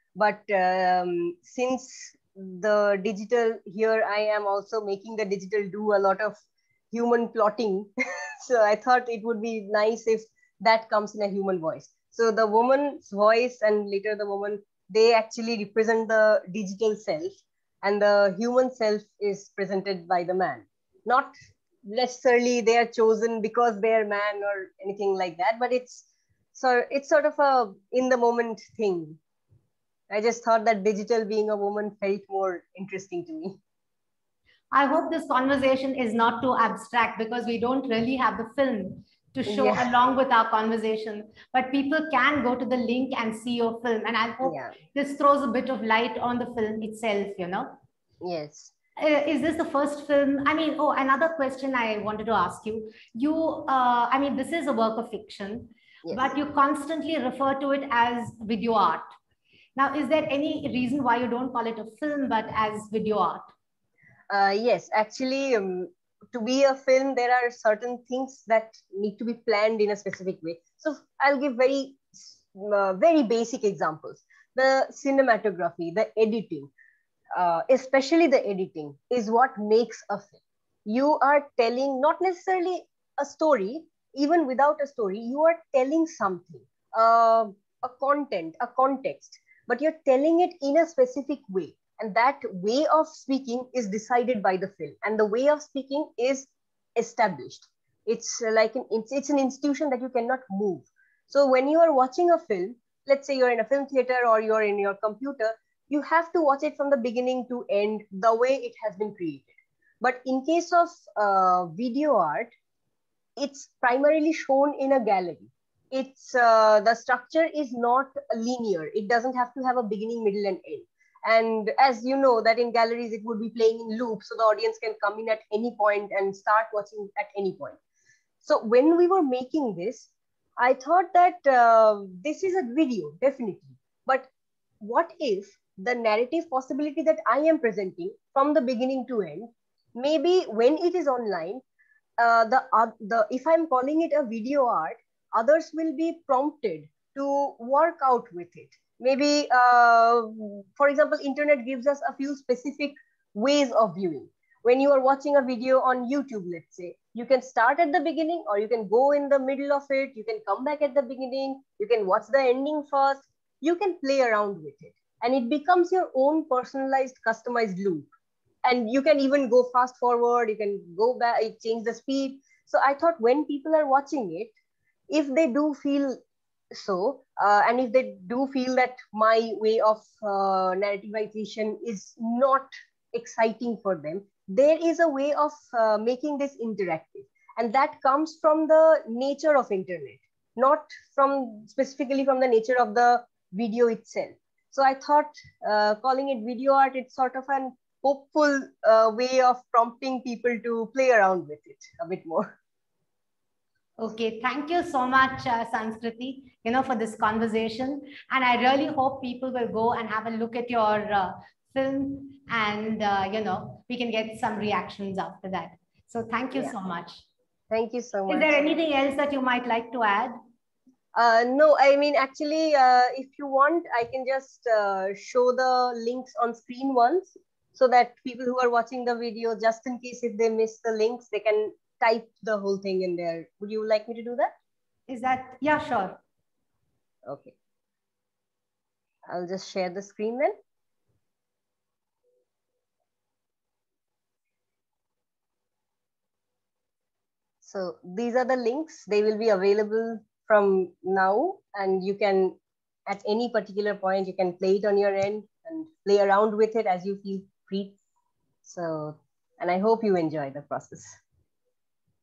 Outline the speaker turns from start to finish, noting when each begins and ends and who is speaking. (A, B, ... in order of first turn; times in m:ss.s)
0:00.2-0:06.4 A
0:06.9-0:07.9 A
0:08.4-0:21.3 A
0:21.8-0:29.2 A
0:30.1-0:33.6 A
0:34.7-0:47.8 B
0:39.4-0:39.9 A
0:44.4-0:44.7 A
0:48.2-0:48.7 A
0:49.0-0:59.1 B
0:56.0-0:56.3 A
0:59.8-1:03.5 B
1:04.3-1:16.7 A
1:17.3-1:52.5 A
1:53.4-2:07.8 A
2:08.4-2:14.3 A
2:14.8-2:21.6 A
2:22.2-2:48.1 A
2:48.6-2:54.5 A
2:55.1-2:56.2 A
2:56.7-3:22.5 A
3:24.0-3:37.2 B
3:37.7-3:38.7 A
3:38.3-3:40.3 B
3:41.1-3:54.5 A
3:55.1-3:56.2 B
3:57.2-3:57.5 A
3:59.3-4:00.5 A
4:07.6-4:12.6 A
4:13.1-4:18.0 A
4:18.6-4:21.2 A